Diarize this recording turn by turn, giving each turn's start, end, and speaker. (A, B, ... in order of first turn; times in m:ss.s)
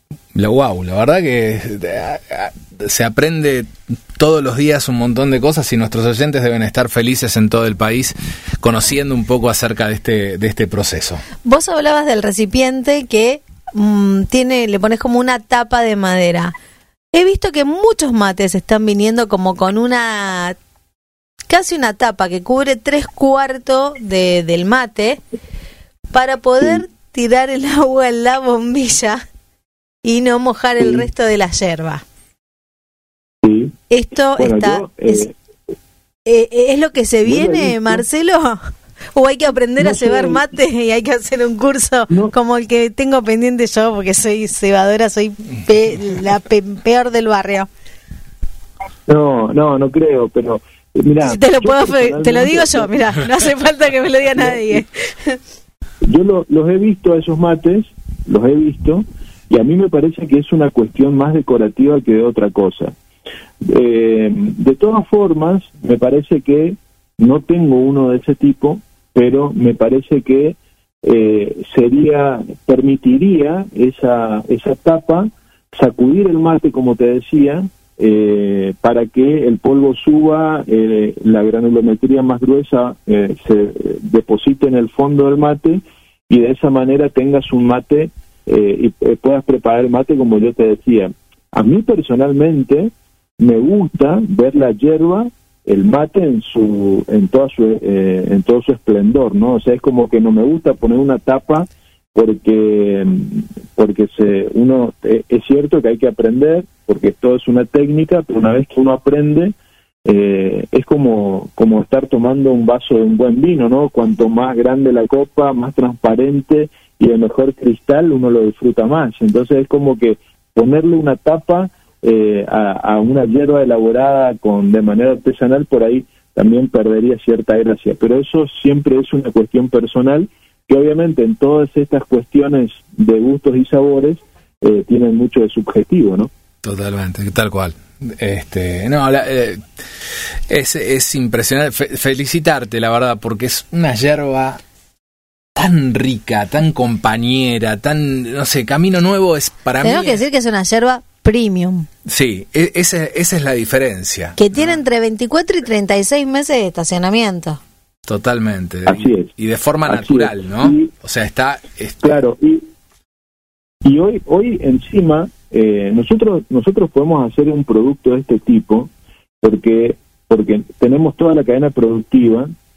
0:00.3-0:11.2 A
0:11.4-0:16.5 B
0:17.1-0:20.6 B
0:21.5-0:25.2 B
0:26.1-0:29.2 B
0:30.0-0:32.0 B
0:33.4-0:33.8 C
0:33.9-0:35.2 B
0:34.4-0:35.3 C
0:36.2-0:38.6 B
0:37.2-0:38.0 C
0:39.1-0:47.7 B
0:39.8-0:40.4 C
0:49.1-0:53.0 C
0:51.2-0:55.4 B
0:54.3-0:54.8 C
0:56.0-1:02.9 C
1:03.6-1:49.5 C
1:50.0-2:16.3 C
2:16.6-2:19.6 A
2:20.5-2:24.6 A
2:25.6-2:30.2 A
2:29.8-2:31.9 B
2:32.0-2:34.8 A
2:34.4-2:37.6 B
2:38.1-2:42.2 A
2:38.8-2:39.3 C
2:39.9-2:40.9 C
2:42.0-2:42.6 C
2:43.8-2:48.9 C
2:49.4-2:52.5 C